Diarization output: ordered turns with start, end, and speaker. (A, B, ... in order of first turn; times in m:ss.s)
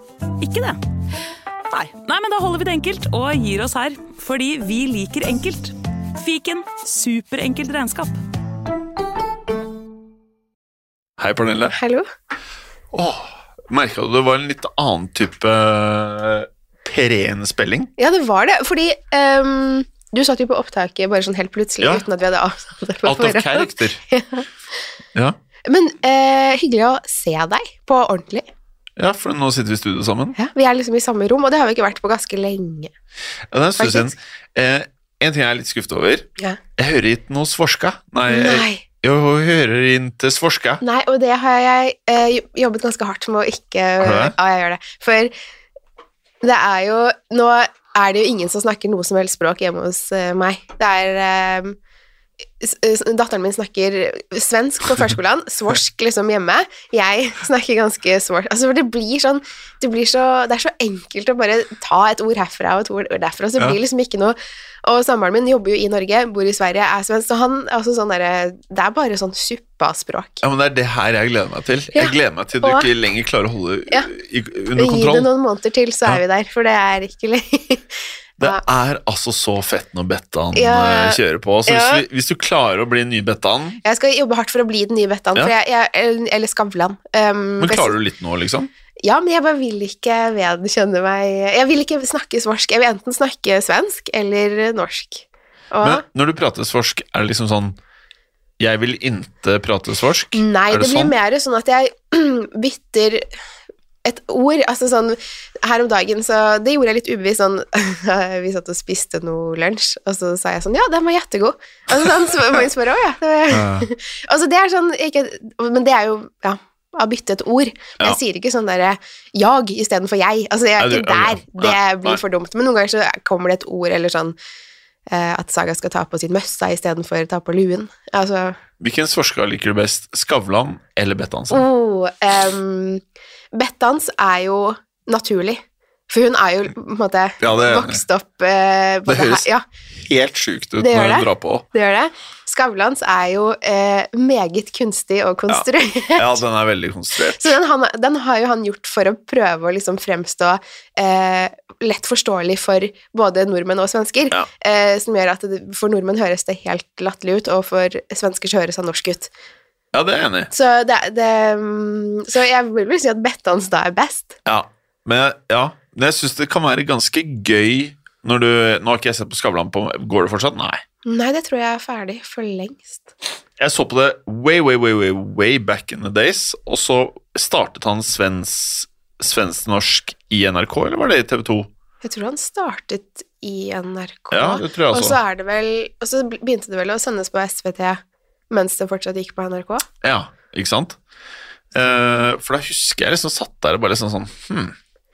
0:00.4-0:00.8 A
0:01.7-0:08.2 A
0:11.2-0:11.8 B
0:11.7-0:12.1 C
0:12.9-0:17.9 B
0:18.0-0:24.5 C
0:23.0-0:24.0 B
0:25.7-0:28.5 C
0:29.0-0:30.4 B
0:30.4-0:32.9 C
0:33.5-0:40.8 B
0:33.8-0:34.1 C
0:38.3-0:38.8 C
0:40.8-0:45.3 C
0:44.0-0:44.3 B
0:46.4-0:51.8 C
0:52.6-1:10.4 C
1:10.4-1:15.3 B
1:11.9-1:12.9 C
1:14.8-1:18.6 C
1:18.4-1:23.8 B
1:20.5-1:22.0 C
1:23.8-1:28.0 C
1:27.6-1:28.7 B
1:29.0-1:36.0 C
1:35.8-1:37.8 B
1:38.6-1:41.1 B
1:40.3-1:43.2 C
1:44.0-2:04.4 C
1:51.9-1:52.6 B
1:53.5-1:53.9 B
2:00.8-2:02.2 B
2:05.1-2:08.6 C
2:08.8-2:11.7 B
2:11.5-2:19.6 C
2:17.4-2:18.0 B
2:19.0-2:21.6 B
2:20.8-2:26.4 C
2:25.5-2:27.5 B
2:27.3-2:39.3 C
2:39.9-2:40.5 B
2:40.5-2:44.4 C
2:44.4-2:50.8 B
2:51.0-2:53.1 C
2:53.6-3:01.7 B
3:02.0-3:09.9 C
3:04.3-3:05.2 B
3:10.0-3:11.0 B
3:11.7-3:14.7 B